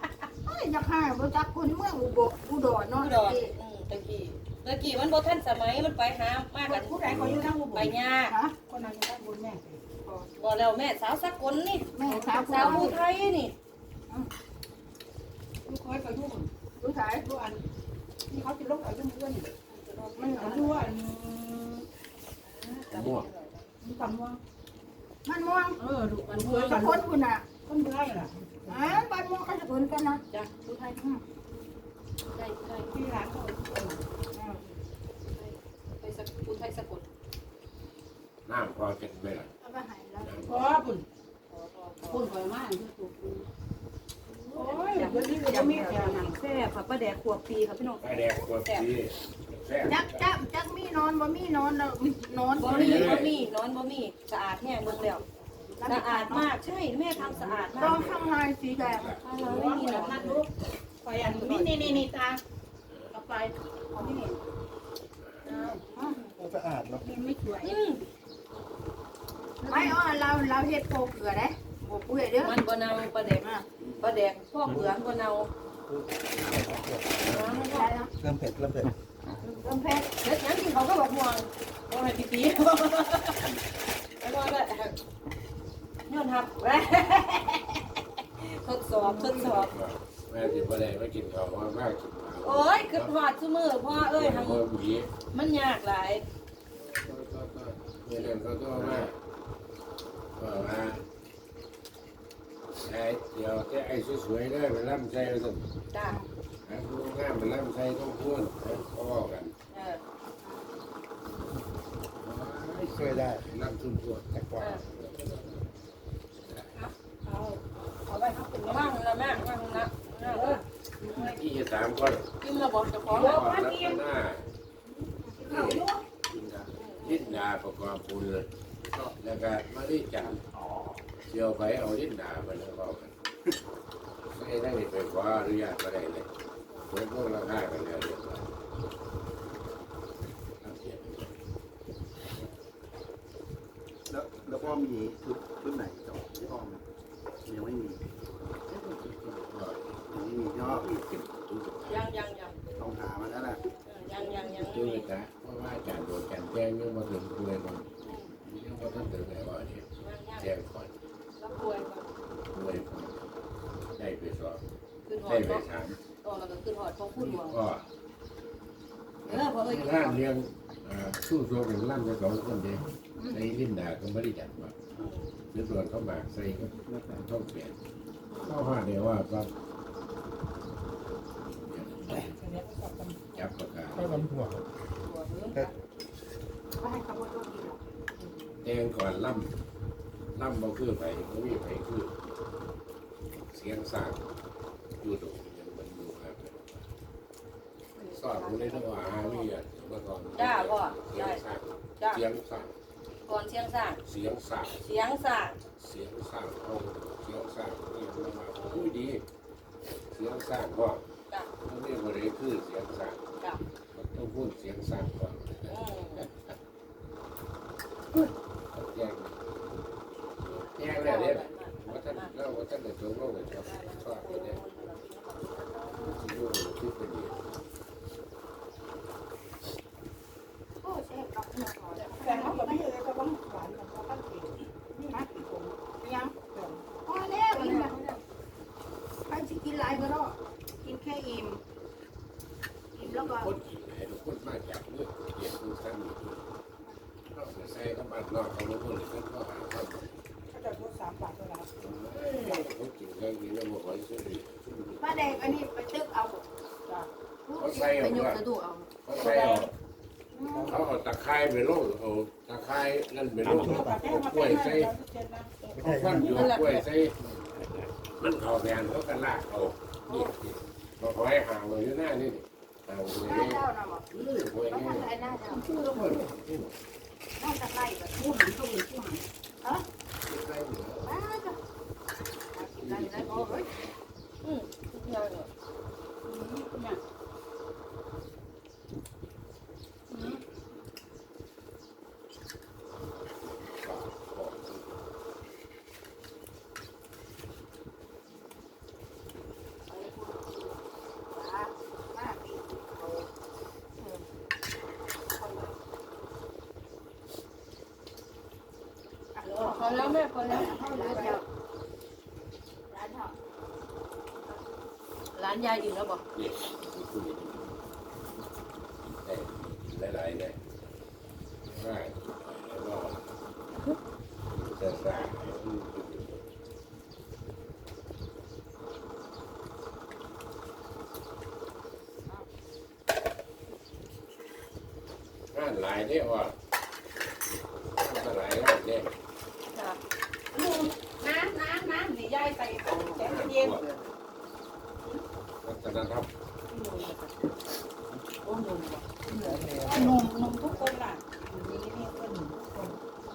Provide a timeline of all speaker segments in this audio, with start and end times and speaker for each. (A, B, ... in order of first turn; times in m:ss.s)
0:00.5-0:03.6 A
0:03.0-0:07.0 B
0:06.6-0:08.0 C
0:07.1-0:07.5 D
0:07.7-0:08.4 B
0:08.3-0:08.6 A
0:08.6-0:09.8 C
0:10.4-0:13.5 B
0:11.9-0:13.0 A
0:12.0-0:13.0 C
0:15.6-0:16.5 C
0:16.8-0:17.3 A
0:17.2-0:17.6 C
0:18.3-0:19.5 C
0:19.7-0:20.6 B
0:20.2-0:20.9 A
0:20.3-0:21.8 C
0:22.4-0:23.7 B
0:22.9-0:23.3 D
0:23.8-0:24.4 C
0:25.2-0:25.8 A
0:25.8-0:27.1 C
0:26.4-0:26.8 B
0:26.4-0:27.5 A
0:27.7-0:29.0 C
0:28.7-0:31.2 A
0:30.3-0:30.6 B
0:32.3-0:33.0 B
0:32.9-0:34.0 C
0:34.3-0:34.6 A
0:34.5-0:37.1 B
0:38.5-0:39.5 D
0:39.6-0:40.7 A
0:40.2-0:40.7 D
0:40.5-0:41.0 C
0:41.5-0:42.3 B
0:42.1-0:43.5 C
0:44.5-0:48.9 B
0:44.5-0:46.4 C
0:44.6-0:45.3 A
0:48.0-0:50.4 D
0:49.9-0:53.3 A
0:52.6-0:53.4 D
0:52.6-0:55.2 B
0:54.9-0:55.3 C
0:55.8-0:56.5 A
0:55.9-0:58.0 B
0:57.1-0:58.1 C
0:57.6-0:59.6 D
0:57.8-0:59.2 A
0:59.2-1:00.4 B
0:59.4-1:00.5 C
1:01.0-1:02.4 C
1:01.4-1:02.1 B
1:03.1-1:04.4 C
1:05.2-1:05.5 D
1:05.5-1:05.8 C
1:05.5-1:06.4 B
1:06.4-1:07.0 E
1:07.0-1:07.8 C
1:07.6-1:08.0 B
1:09.6-1:10.0 B
1:09.7-1:12.6 A
1:12.4-1:13.4 B
1:13.3-1:13.7 A
1:13.8-1:14.0 F
1:14.0-1:15.5 B
1:15.9-1:17.5 E
1:17.2-1:17.7 D
1:17.3-1:17.9 B
1:17.7-1:18.1 A
1:18.2-1:18.9 E
1:19.6-1:20.1 A
1:20.2-1:23.5 B
1:24.2-1:25.0 B
1:26.1-1:27.8 B
1:28.4-1:29.7 B
1:29.4-1:33.1 D
1:32.4-1:34.6 B
1:33.9-1:35.1 D
1:35.3-1:36.2 B
1:36.7-1:39.2 D
1:40.4-1:41.0 D
1:42.8-1:45.7 D
1:45.9-1:46.2 B
1:46.7-1:49.5 D
1:49.7-1:50.0 B
1:52.2-1:54.3 D
1:52.9-1:53.5 E
1:54.3-1:54.8 E
1:54.8-1:55.3 D
1:56.4-1:56.7 D
1:56.7-2:01.4 C
1:58.6-2:00.6 B
2:01.1-2:02.3 D
2:02.4-2:03.4 B
2:03.1-2:04.1 C
2:03.1-2:04.5 D
2:04.9-2:05.6 A
2:05.5-2:06.7 F
2:05.5-2:05.9 D
2:05.5-2:06.0 C
2:06.7-2:07.3 B
2:07.0-2:08.5 D
2:08.9-2:09.1 F
2:09.1-2:10.4 D
2:10.2-2:11.0 F
2:11.2-2:13.1 D
2:14.3-2:16.3 D
2:16.9-2:18.5 D
2:20.6-2:21.4 D
2:24.1-2:26.8 F
2:24.4-2:24.8 D
2:27.5-2:28.0 F
2:28.7-2:30.0 D
2:30.1-2:31.0 F
2:30.6-2:32.1 D
2:31.9-2:32.6 B
2:32.8-2:33.6 F
2:33.8-2:35.0 B
2:34.3-2:37.9 D
2:38.0-2:38.3 B
2:38.5-2:41.0 D
2:40.0-2:40.5 B
2:41.4-2:42.1 B
2:42.5-2:43.3 D
2:44.0-2:44.6 D
2:45.1-2:45.6 B
2:45.2-2:46.0 D
2:46.2-2:47.6 B
2:47.2-2:47.9 D
2:49.2-2:54.8 D
2:49.3-2:50.2 B
2:55.0-2:55.3 B
2:55.5-2:57.8 D
2:56.9-2:57.2 F
2:58.3-2:58.6 B
2:58.5-2:59.5 D
3:01.4-3:02.4 D
3:02.1-3:03.5 C
3:03.3-3:04.3 D
3:04.0-3:04.7 E
3:05.0-3:05.8 B
3:06.8-3:07.8 A
3:08.6-3:09.5 D
3:10.4-3:12.1 D
3:13.5-3:14.2 D
3:15.0-3:16.9 D
3:18.0-3:19.5 B
3:18.2-3:22.7 D
3:20.4-3:21.4 B
3:23.3-3:24.0 B
3:24.0-3:24.8 D
3:24.8-3:25.6 B
3:25.8-3:29.2 D
3:28.5-3:28.9 B
3:30.1-3:31.0 D
3:31.6-3:33.2 D
3:33.9-3:36.5 D
3:35.7-3:36.3 B
3:38.7-3:39.4 D
3:40.4-3:42.3 B
3:40.8-3:44.6 D
3:43.6-3:46.3 B
3:46.0-3:47.4 D
3:50.8-3:52.9 A
3:52.0-3:56.8 C
3:55.1-3:55.4 A
3:55.9-3:56.4 A
3:57.0-3:58.0 A
3:57.5-3:58.2 B
3:59.3-4:01.6 A
4:03.0-4:03.5 A
4:03.0-4:06.5 D
4:07.3-4:10.1 D
4:10.5-4:11.7 C
4:11.8-4:15.6 D
4:12.3-4:12.6 C
4:15.0-4:16.5 A
4:17.5-4:18.2 A
4:17.6-4:18.4 D
4:18.0-4:19.1 B
4:19.0-4:19.7 D
4:19.2-4:19.7 C
4:20.3-4:20.8 A
4:20.4-4:20.7 C
4:20.6-4:25.0 D
4:23.4-4:25.5 C
4:23.5-4:23.9 E
4:25.6-4:26.8 B
4:25.8-4:27.2 D
4:25.8-4:26.5 E
4:26.2-4:26.5 C
4:28.2-4:36.8 D
4:30.1-4:30.4 A
4:33.2-4:35.7 A
4:34.2-4:34.5 C
4:35.8-4:36.3 C
4:37.4-4:38.2 A
4:38.2-4:39.3 C
4:40.3-4:41.1 D
4:41.0-4:41.6 A
4:42.5-4:43.7 A
4:42.8-4:44.0 D
4:44.4-4:45.5 B
4:46.3-4:47.0 C
4:50.1-4:50.4 C
4:53.6-4:55.0 D
4:59.9-5:03.3 A
5:05.2-5:05.8 A
5:09.4-5:11.4 A
5:09.4-5:11.4 B
5:12.9-5:13.4 A
5:15.4-5:16.2 B
5:16.3-5:17.8 D
5:19.2-5:20.6 D
5:21.6-5:23.4 D
5:24.5-5:26.4 D
5:35.5-5:36.6 D
5:38.0-5:39.1 D
5:39.7-5:40.0 B
5:40.5-5:43.8 C
5:42.9-5:44.0 F
5:43.2-5:43.8 D
5:45.6-5:46.3 D
5:46.7-5:47.3 B
5:48.4-5:49.6 B
5:49.4-5:50.2 E
5:49.8-5:53.0 C